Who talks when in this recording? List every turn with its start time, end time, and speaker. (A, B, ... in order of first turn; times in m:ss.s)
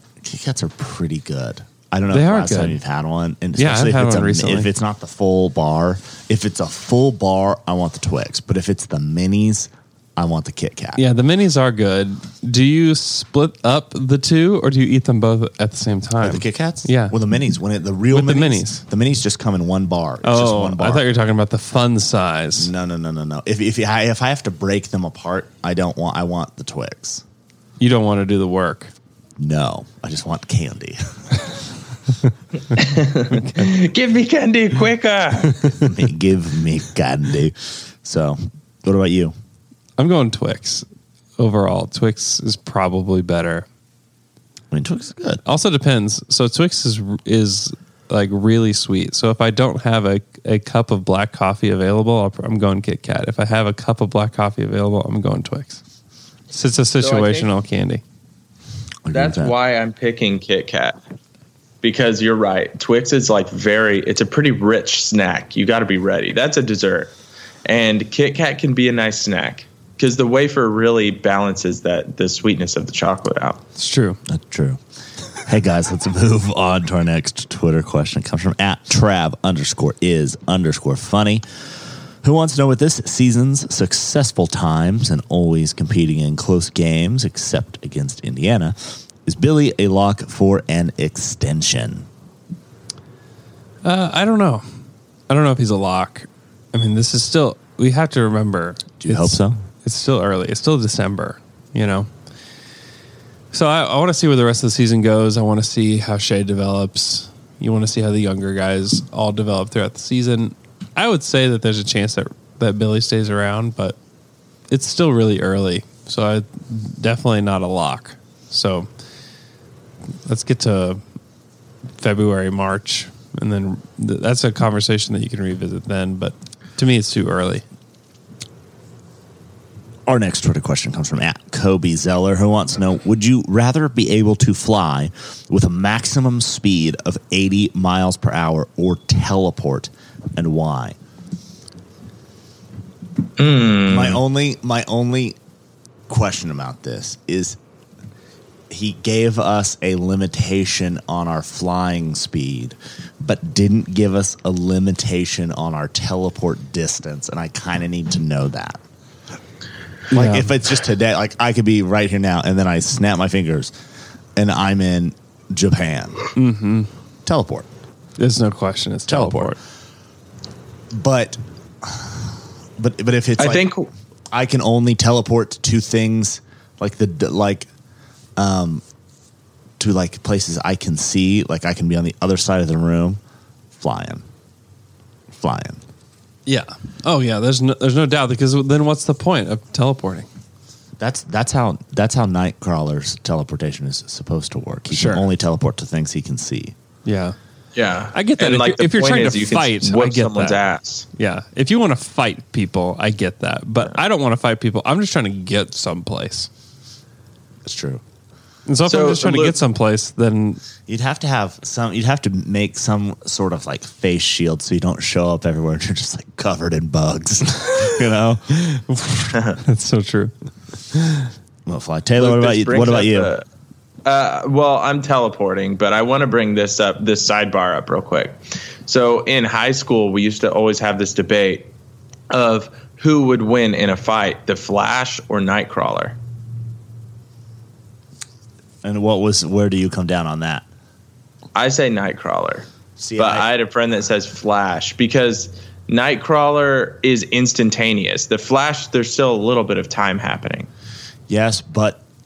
0:00.2-0:11.0 A
0:02.1-0:02.8 B
0:03.6-0:04.7 B
0:11.0-0:17.2 B
0:16.2-0:21.1 A
0:18.1-0:18.8 B
0:20.2-0:22.7 B
0:22.6-0:27.2 A
0:27.8-0:28.9 B
0:29.4-0:31.0 A
0:32.8-0:35.7 C
0:35.8-0:39.3 A
0:40.0-0:40.8 B
0:41.4-0:43.7 B
0:44.7-0:45.4 A
0:45.4-0:55.8 B
0:56.5-0:58.0 B
0:57.0-0:57.5 C
0:59.0-0:59.6 A
0:59.1-1:01.0 C
1:01.8-1:07.1 C
1:07.7-1:13.6 C
1:13.8-1:14.2 B
1:14.3-1:14.8 A
1:15.4-1:21.4 A
1:22.2-1:32.1 A
1:33.8-1:34.6 B
1:35.3-1:42.1 B
1:39.0-1:39.6 A
1:43.5-1:54.0 B
1:54.7-1:58.9 B
2:00.3-2:01.0 B
2:02.0-2:07.6 B
2:10.1-2:21.0 A
2:23.4-2:24.2 C
2:23.9-2:25.4 A
2:26.1-2:27.6 A
2:28.7-2:38.8 A
2:40.1-2:40.5 B
2:40.1-2:43.7 A
2:44.4-2:46.3 A
2:46.4-2:46.9 B
2:47.2-2:47.7 A
2:48.2-2:49.6 B
2:49.1-2:49.6 A
2:50.9-2:53.7 A
2:53.4-2:53.9 C
2:54.3-2:57.7 A
2:58.4-2:58.8 A
2:59.8-3:03.2 A
3:03.7-3:04.2 A
3:05.3-3:05.8 A
3:06.5-3:10.3 B
3:11.0-3:16.8 A
3:14.9-3:15.3 B
3:17.1-3:17.4 B
3:17.8-3:21.1 C
3:18.1-3:20.6 B
3:21.2-3:26.5 B
3:27.6-3:28.0 A
3:28.7-3:30.6 B
3:28.8-3:29.6 C
3:30.9-3:38.4 A
3:38.6-3:40.3 B
3:40.9-3:41.3 B
3:41.7-3:43.3 A
3:42.2-3:43.4 C
3:44.0-3:51.7 C
3:52.3-3:56.2 C
3:58.8-4:00.6 A
4:01.6-4:02.7 C
4:03.0-4:03.5 A
4:03.2-4:10.7 C
4:11.3-4:12.0 A